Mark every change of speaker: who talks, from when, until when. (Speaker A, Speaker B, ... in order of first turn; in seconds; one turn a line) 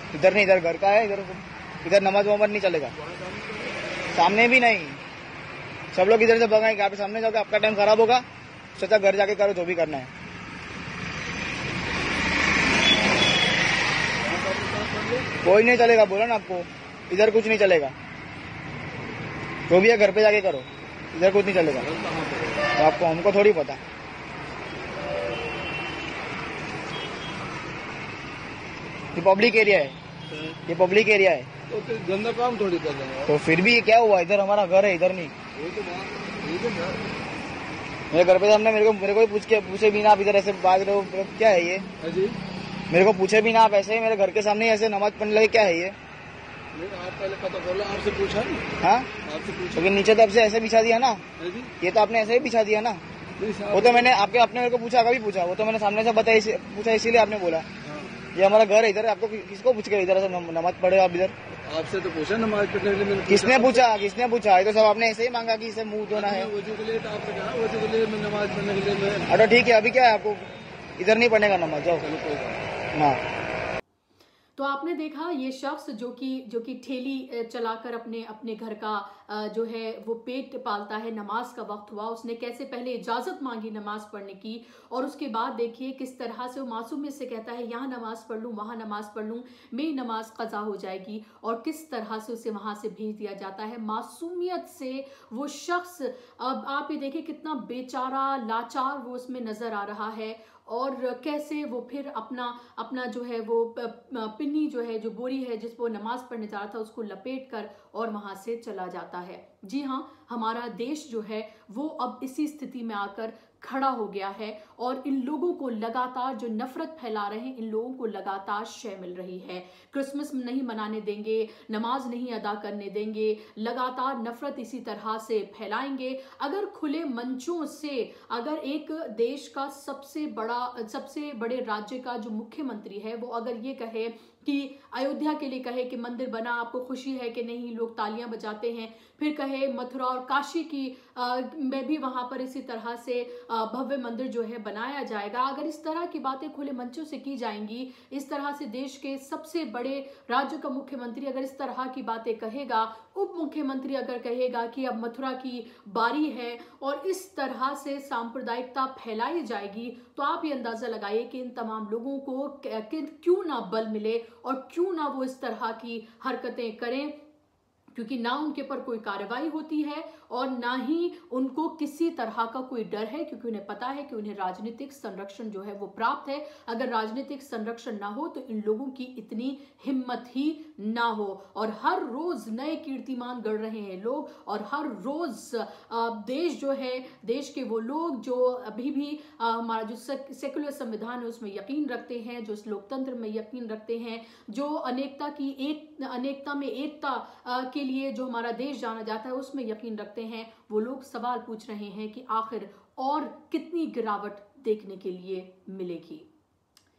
Speaker A: 0.1-2.9
Speaker B: 2.9-3.8
Speaker A: 4.1-5.0
Speaker A: 5.9-8.2
Speaker A: 8.8-10.1
Speaker B: 14.2-15.3
Speaker A: 15.4-17.9
Speaker A: 19.7-21.9
Speaker B: 21.8-22.7
Speaker A: 22.7-23.8
Speaker A: 29.1-30.0
Speaker A: 30.7-31.5
Speaker B: 31.7-33.3
Speaker A: 33.3-35.3
Speaker B: 35.5-37.1
Speaker A: 38.1-41.9
Speaker B: 42.0-42.4
Speaker A: 42.9-46.0
Speaker B: 46.7-48.6
Speaker A: 48.8-49.1
Speaker B: 49.2-49.9
Speaker A: 49.7-51.2
Speaker B: 51.4-51.7
Speaker A: 51.8-53.0
Speaker B: 53.4-54.1
Speaker A: 53.7-57.6
Speaker B: 57.9-58.2
Speaker A: 58.3-61.3
Speaker B: 61.6-63.8
Speaker A: 63.3-66.5
Speaker B: 66.1-69.3
Speaker A: 69.3-72.0
Speaker B: 72.0-72.7
Speaker A: 72.9-73.2
Speaker C: 74.5-167.2
Speaker C: 167.9-206.3